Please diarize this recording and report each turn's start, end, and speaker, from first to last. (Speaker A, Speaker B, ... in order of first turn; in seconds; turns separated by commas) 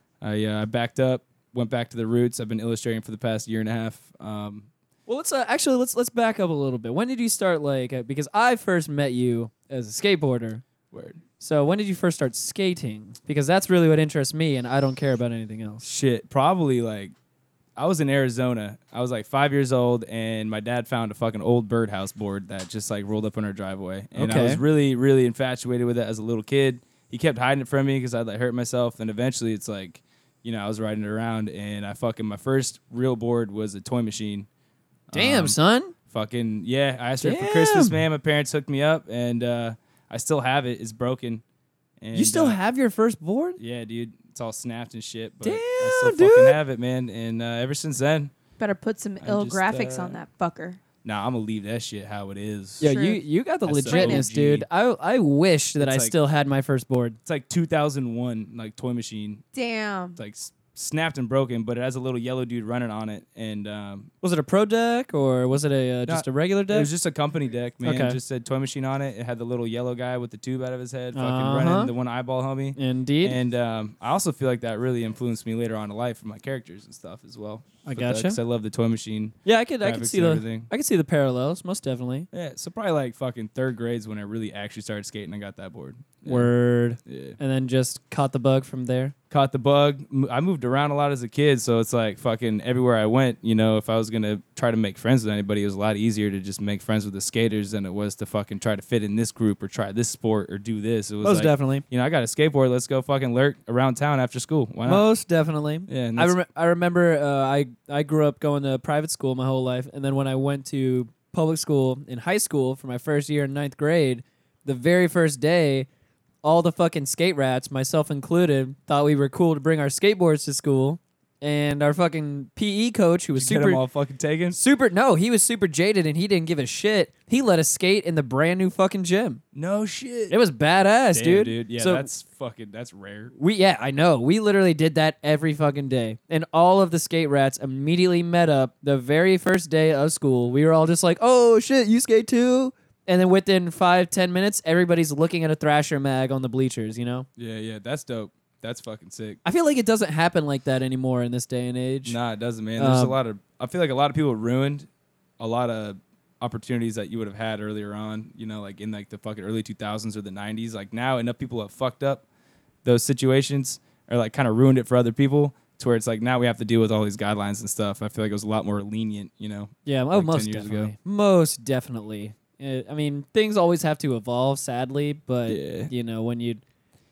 Speaker A: 0.2-4.7, Speaker B: 5.1-10.6, Speaker A: 10.9-11.2, Speaker B: 11.4-15.8, Speaker A: 15.8-17.1, Speaker A: 17.8-34.5, Speaker B: 24.1-24.6, Speaker A: 35.1-35.6, Speaker B: 35.1-35.9, Speaker A: 36.1-41.4, Speaker B: 37.2-38.0, Speaker A: 42.0-42.6, Speaker B: 42.1-43.6, Speaker A: 43.6-48.3, Speaker B: 45.4-46.6, Speaker C: 48.6-50.8, Speaker A: 49.2-50.2, Speaker A: 51.0-52.9, Speaker B: 52.8-57.2, Speaker C: 52.8-53.2, Speaker A: 53.6-54.7, Speaker C: 53.9-54.3, Speaker A: 55.8-56.1, Speaker A: 57.3-59.4, Speaker C: 59.5-60.2, Speaker A: 60.2-64.1, Speaker B: 64.2-66.9, Speaker A: 66.1-80.7, Speaker B: 67.8-68.2, Speaker B: 71.1-71.9, Speaker B: 72.8-73.4, Speaker B: 77.8-78.4, Speaker B: 79.5-82.3, Speaker A: 82.3-87.4, Speaker B: 86.2-89.1, Speaker A: 89.3-105.1, Speaker B: 101.2-101.8, Speaker B: 104.8-115.9, Speaker A: 105.9-106.4, Speaker B: 116.4-123.8, Speaker A: 123.3-124.6, Speaker B: 124.5-129.4, Speaker A: 129.5-130.4, Speaker B: 130.3-132.1, Speaker A: 131.1-133.3, Speaker B: 133.4-147.3, Speaker A: 147.4-149.4, Speaker B: 149.4-152.2, Speaker A: 152.1-154.9, Speaker B: 152.8-153.2, Speaker A: 155.4-162.2, Speaker A: 162.8-170.9, Speaker B: 169.9-176.6, Speaker A: 175.5-175.9